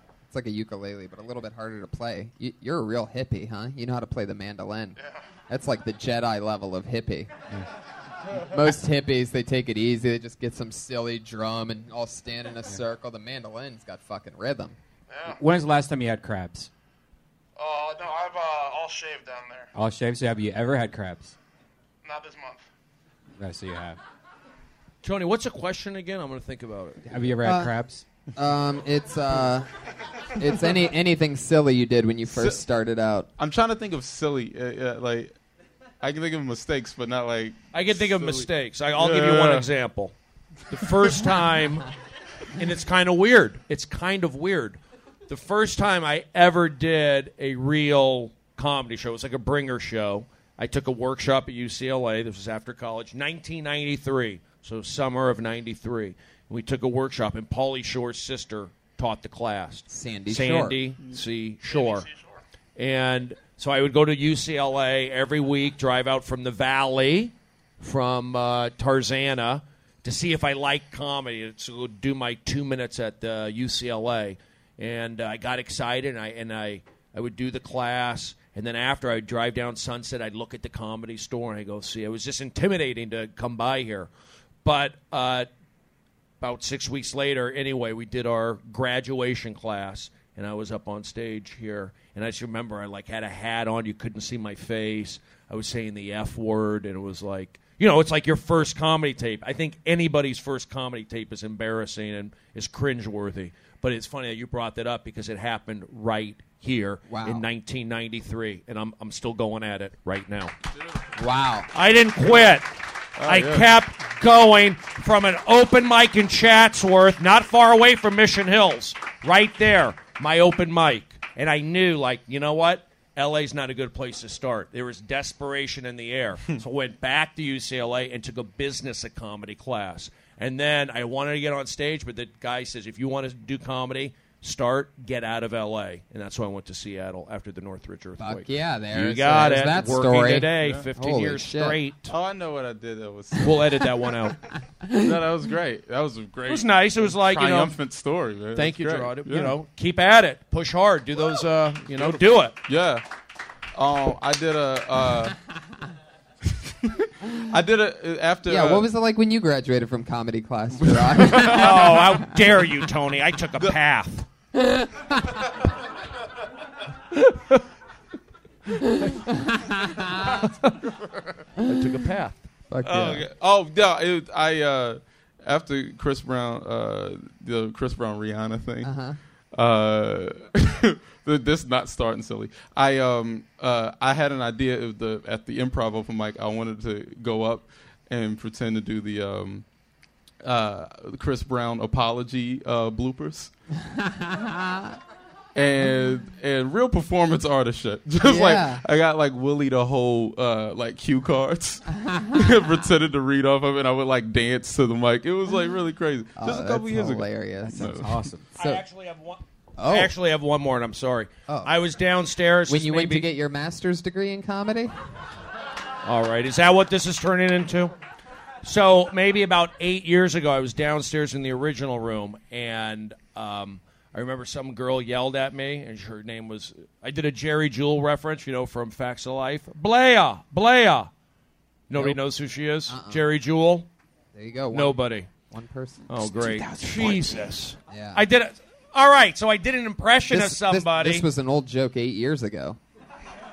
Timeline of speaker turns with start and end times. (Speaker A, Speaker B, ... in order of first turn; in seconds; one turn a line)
Speaker A: 0.3-5.0
Speaker A: 5.5-7.3
Speaker A: 8.3-14.8
Speaker B: 15.1-15.4
Speaker C: 15.3-16.7
Speaker B: 17.6-19.7
Speaker C: 19.7-21.4
Speaker B: 22.0-22.6
Speaker C: 23.4-24.0
Speaker D: 25.0-27.3
Speaker C: 27.1-28.0
Speaker A: 27.4-27.7
Speaker A: 28.3-29.7
Speaker A: 30.4-33.3
Speaker E: 32.3-32.6
Speaker E: 33.4-35.3
Speaker E: 36.0-39.7
Speaker D: 37.7-40.1
Speaker D: 40.7-41.9
Speaker D: 42.6-62.1
Speaker A: 59.9-60.8
Speaker B: 61.7-62.4
Speaker D: 62.8-84.1
Speaker D: 84.6-85.5
Speaker D: 86.4-110.5
Speaker A: 107.1-107.5
Speaker A: 111.2-111.7
Speaker D: 111.7-112.7
Speaker E: 113.2-113.7
Speaker D: 113.2-142.1
Speaker A: 138.2-141.8
Speaker E: 142.1-143.5
Speaker D: 143.4-144.4
Speaker E: 145.0-149.5
Speaker D: 146.5-147.8
Speaker D: 148.6-152.5
Speaker E: 151.9-153.0
Speaker E: 153.7-155.3
Speaker E: 157.5-158.8
Speaker A: 158.4-162.2
Speaker E: 160.9-161.8
Speaker D: 161.4-164.3
Speaker D: 167.3-167.6
Speaker A: 169.6-170.4
Speaker D: 170.4-170.7
Speaker D: 171.6-172.4
Speaker A: 172.7-173.2
Speaker E: 172.8-178.9
Speaker A: 178.8-179.2
Speaker E: 179.5-189.6
Speaker E: 190.4-193.5
Speaker A: 193.8-195.0
Speaker E: 195.5-207.2
Speaker A: 198.2-198.8
Speaker A: 201.9-202.5
Speaker A: 206.4-207.9
Speaker C: 207.7-208.4
Speaker E: 207.8-208.2
Speaker A: 208.5-208.8
Speaker D: 208.6-213.2
Speaker A: 209.8-210.1
Speaker A: 212.7-214.9
Speaker D: 216.0-217.9
Speaker D: 218.6-231.1
Speaker D: 231.9-233.9
Speaker A: 232.9-233.2
Speaker A: 234.3-235.0
Speaker D: 234.7-235.3
Speaker A: 235.5-236.1
Speaker D: 236.1-241.2
Speaker C: 236.4-237.2
Speaker A: 237.9-238.2
Speaker A: 240.3-242.8